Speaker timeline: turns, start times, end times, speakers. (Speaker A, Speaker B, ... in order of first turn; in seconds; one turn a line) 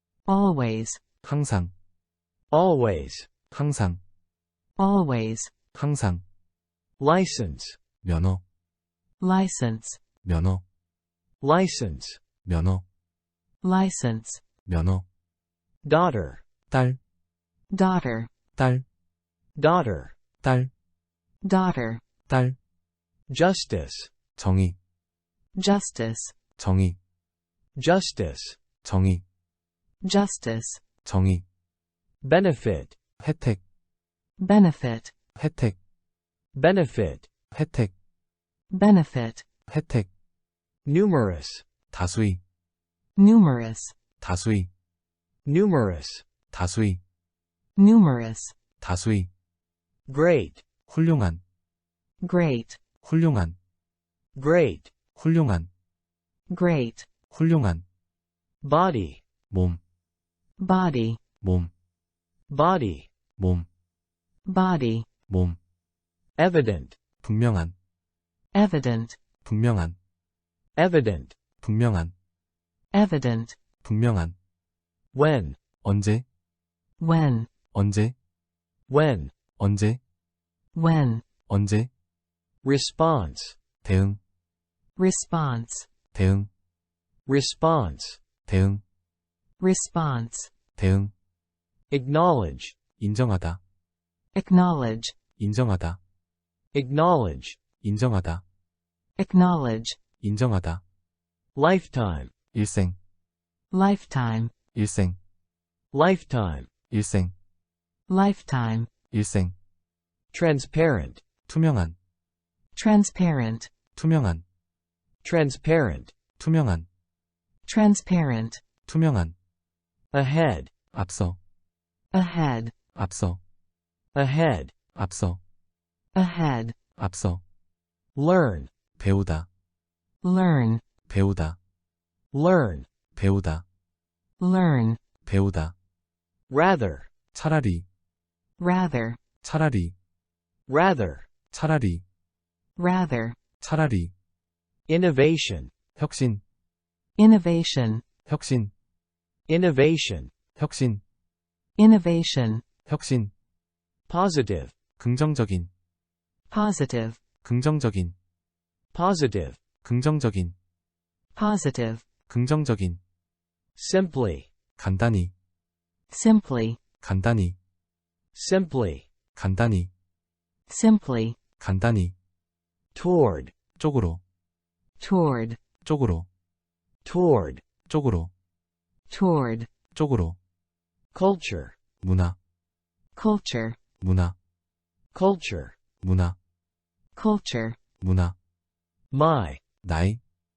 Speaker A: 0.2-1.0
Speaker B: 1.2-1.7
Speaker C: 2.5-3.3
Speaker B: 3.5-4.0
Speaker A: 4.8-5.5
Speaker B: 5.7-6.2
Speaker C: 7.0-7.8
Speaker B: 8.0-8.4
Speaker A: 9.2-10.0
Speaker B: 10.2-10.6
Speaker C: 11.4-12.2
Speaker B: 12.4-12.8
Speaker A: 13.6-14.4
Speaker B: 14.7-15.0
Speaker C: 15.8-16.4
Speaker B: 16.7-17.0
Speaker A: 17.7-18.3
Speaker B: 18.6-18.8
Speaker C: 19.6-20.1
Speaker B: 20.4-20.7
Speaker A: 21.4-22.0
Speaker B: 22.3-22.6
Speaker C: 23.3-24.1
Speaker B: 24.4-24.8
Speaker A: 25.6-26.3
Speaker B: 26.6-27.0
Speaker C: 27.8-28.6
Speaker B: 28.8-29.2
Speaker A: 30.0-30.8
Speaker B: 31.0-31.4
Speaker C: 32.2-33.0
Speaker B: 33.2-33.6
Speaker A: 34.4-35.1
Speaker B: 35.4-35.8
Speaker C: 36.5-37.3
Speaker B: 37.5-37.9
Speaker A: 38.7-39.4
Speaker B: 39.7-40.1
Speaker C: 40.8-41.6
Speaker B: 41.9-42.4
Speaker A: 43.2-43.9
Speaker B: 44.2-44.7
Speaker C: 45.4-46.2
Speaker B: 46.5-47.0
Speaker A: 47.8-48.5
Speaker B: 48.8-49.3
Speaker C: 50.1-50.6
Speaker B: 50.9-51.4
Speaker A: 52.2-52.8
Speaker B: 53.0-53.5
Speaker C: 54.3-54.9
Speaker B: 55.1-55.7
Speaker A: 56.5-57.1
Speaker B: 57.3-57.8
Speaker C: 58.6-59.2
Speaker B: 59.5-59.8
Speaker A: 60.6-61.2
Speaker B: 61.4-61.7
Speaker C: 62.5-63.1
Speaker B: 63.4-63.7
Speaker A: 64.5-65.1
Speaker B: 65.3-65.6
Speaker C: 66.4-67.0
Speaker B: 67.2-67.7
Speaker A: 68.5-69.2
Speaker B: 69.4-70.0
Speaker C: 70.8-71.3
Speaker B: 71.6-72.1
Speaker A: 72.9-73.5
Speaker B: 73.8-74.3
Speaker C: 75.1-75.6
Speaker B: 75.8-76.2
Speaker A: 77.0-77.5
Speaker B: 77.7-78.1
Speaker C: 78.9-79.3
Speaker B: 79.6-80.0
Speaker A: 80.7-81.2
Speaker B: 81.5-81.9
Speaker C: 82.6-83.5
Speaker B: 83.8-84.2
Speaker A: 85.0-85.9
Speaker B: 86.1-86.5
Speaker C: 87.2-88.2
Speaker B: 88.5-88.8
Speaker A: 89.6-90.5
Speaker B: 90.8-91.1
Speaker C: 91.9-92.8
Speaker B: 93.0-93.6
Speaker A: 94.3-95.1
Speaker B: 95.4-96.0
Speaker C: 96.7-97.6
Speaker B: 97.8-98.4
Speaker A: 99.2-100.0
Speaker B: 100.2-100.8
Speaker C: 101.5-102.3
Speaker B: 102.5-103.0
Speaker A: 103.7-104.5
Speaker B: 104.7-105.2
Speaker C: 105.9-106.7
Speaker B: 106.9-107.3
Speaker A: 108.1-108.9
Speaker B: 109.1-109.5
Speaker C: 110.3-111.2
Speaker B: 111.5-112.0
Speaker A: 112.8-113.7
Speaker B: 114.0-114.4
Speaker C: 115.2-116.1
Speaker B: 116.4-116.9
Speaker A: 117.7-118.6
Speaker B: 118.9-119.3
Speaker C: 120.1-120.7
Speaker B: 120.9-121.4
Speaker A: 122.1-122.7
Speaker B: 123.0-123.4
Speaker C: 124.1-124.7
Speaker B: 124.9-125.4
Speaker A: 126.1-126.7
Speaker B: 127.0-127.4
Speaker C: 128.1-128.7
Speaker B: 129.0-129.5
Speaker A: 130.2-130.8
Speaker B: 131.1-131.6
Speaker C: 132.3-132.9
Speaker B: 133.2-133.6
Speaker A: 134.4-135.0
Speaker B: 135.2-135.7
Speaker C: 136.5-137.1
Speaker B: 137.3-137.8
Speaker A: 138.6-139.2
Speaker B: 139.4-139.9
Speaker C: 140.7-141.3
Speaker B: 141.5-142.0
Speaker A: 142.8-143.4
Speaker B: 143.6-144.1
Speaker C: 144.9-145.7
Speaker B: 145.9-146.4
Speaker A: 147.2-148.0
Speaker B: 148.3-148.7
Speaker C: 149.5-150.3
Speaker B: 150.6-151.0
Speaker A: 151.8-152.6
Speaker B: 152.9-153.3
Speaker C: 154.1-154.7
Speaker B: 155.0-155.7
Speaker A: 156.5-157.2
Speaker B: 157.4-158.1
Speaker C: 158.9-159.6
Speaker B: 159.8-160.5
Speaker A: 161.3-162.0
Speaker B: 162.3-163.0
Speaker C: 163.8-164.5
Speaker B: 164.8-165.3
Speaker A: 166.1-166.8
Speaker B: 167.0-167.6
Speaker C: 168.3-169.1
Speaker B: 169.3-169.9
Speaker A: 170.7-171.4
Speaker B: 171.6-172.1
Speaker C: 172.9-173.5
Speaker B: 173.8-174.2
Speaker A: 175.0-175.6
Speaker B: 175.8-176.3
Speaker C: 177.0-177.6
Speaker B: 177.9-178.3
Speaker A: 179.1-179.7
Speaker B: 179.9-180.4
Speaker C: 181.1-181.8
Speaker B: 182.0-182.3
Speaker A: 183.2-183.8
Speaker B: 184.0-184.3
Speaker C: 185.1-185.8
Speaker B: 186.0-186.3
Speaker A: 187.2-187.8
Speaker B: 188.0-188.3
Speaker C: 189.1-189.6
Speaker B: 189.8-190.2